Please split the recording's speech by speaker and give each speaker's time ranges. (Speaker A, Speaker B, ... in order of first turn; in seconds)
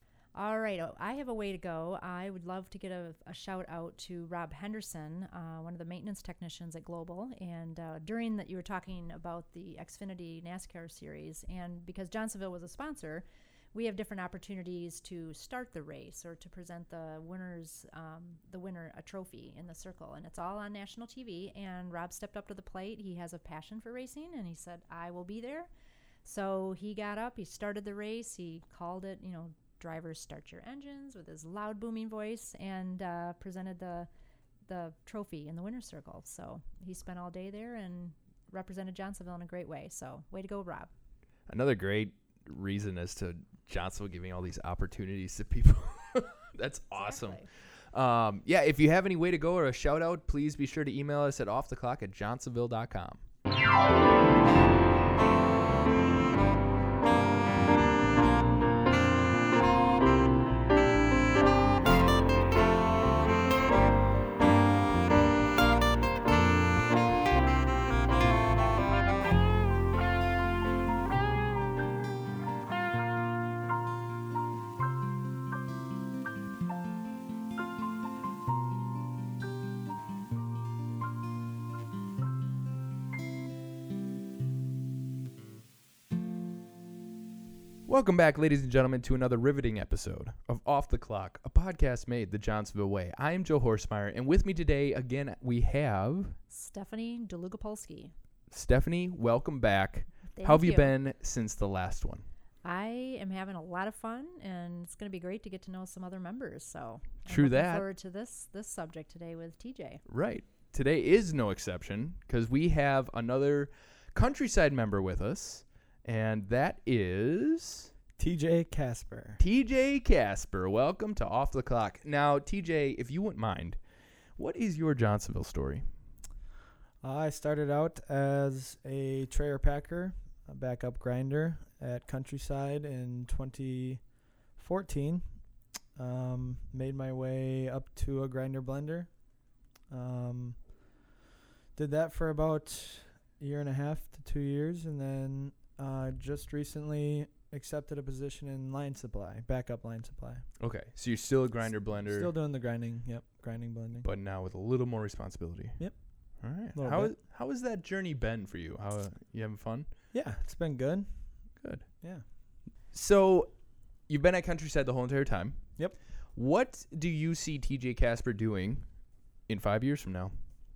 Speaker A: 0.3-25.7, 26.2-34.1, 34.7-40.9, 46.9-47.5, 96.5-98.1, 100.3-101.0, 102.6-110.0
Speaker B: 41.5-53.2, 87.9-96.4, 98.5-102.2, 107.3-107.9, 110.1-117.9, 119.4-123.8, 124.4-125.8, 150.6-152.3, 154.0-155.8, 156.4-159.9, 162.9-163.5, 164.1-168.9, 169.5-170.3
Speaker C: 118.2-119.4, 127.0-134.0, 134.6-135.2, 136.0-139.1, 139.9-140.7, 141.8-150.5, 152.0-154.1, 156.5-157.2, 160.1-161.1